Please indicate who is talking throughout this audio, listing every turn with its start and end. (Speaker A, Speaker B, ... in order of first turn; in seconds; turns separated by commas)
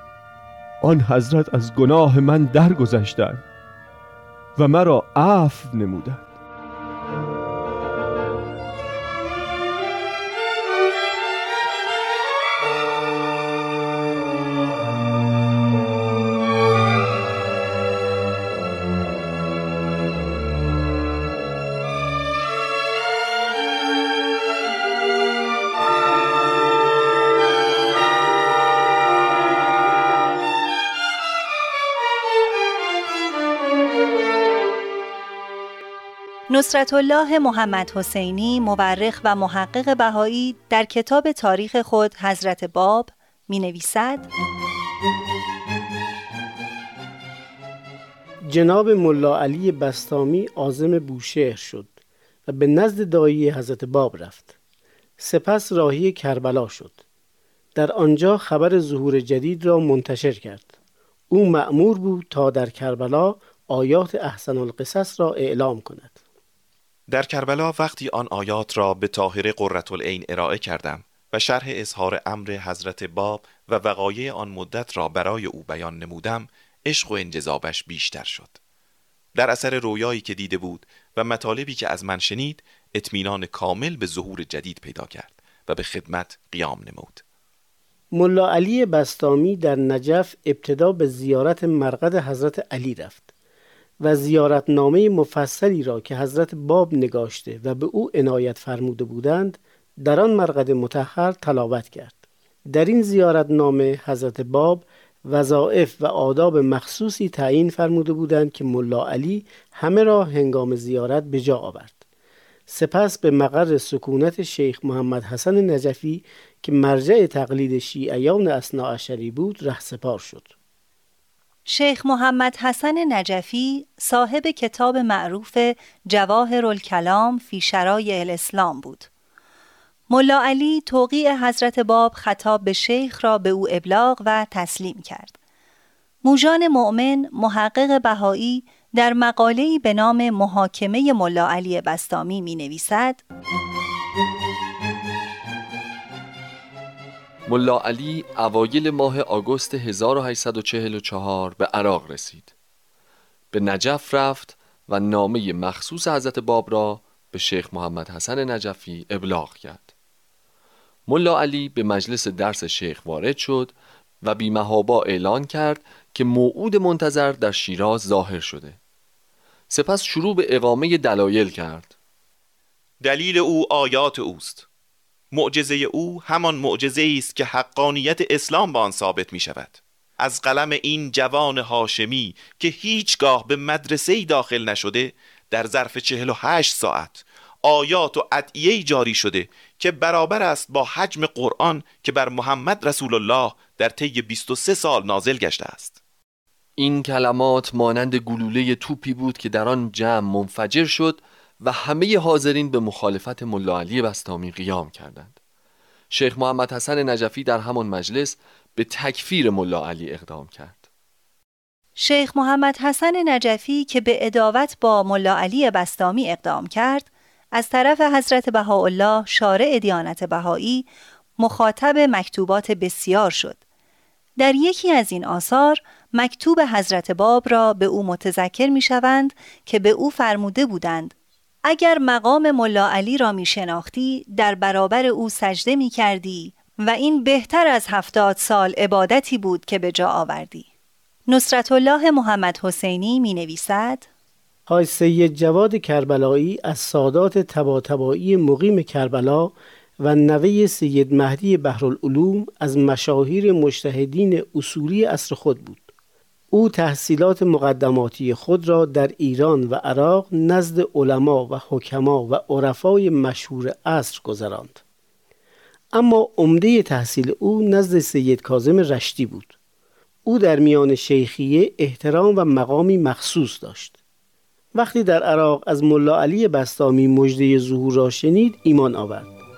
Speaker A: 0.8-3.4, Speaker A: 4.6-6.3, Speaker B: 36.5-44.3, Speaker C: 48.5-52.0, Speaker C: 52.5-54.5, Speaker C: 55.2-57.0, Speaker C: 57.8-60.7, Speaker C: 61.3-66.1, Speaker D: 67.1-78.6, Speaker D: 79.4-87.2, Speaker C: 88.1-93.3, Speaker C: 94.0-112.0, Speaker C: 112.7-120.5, Speaker B: 121.7-129.1, Speaker B: 130.1-135.3, Speaker B: 136.2-143.2, Speaker E: 147.5-152.5, Speaker E: 153.5-159.9, Speaker E: 161.1-168.8, Speaker E: 169.7-171.9, Speaker D: 173.0-174.7, Speaker D: 175.3-196.0, Speaker E: 196.8-205.4, Speaker E: 206.1-210.8, Speaker B: 212.0-223.6, Speaker B: 224.4-231.2, Speaker B: 231.7-240.7, Speaker B: 241.3-244.1, Speaker C: 244.7-255.9, Speaker C: 256.5-264.8, Speaker C: 265.9-269.5, Speaker C: 270.3-274.0, Speaker C: 274.8-279.3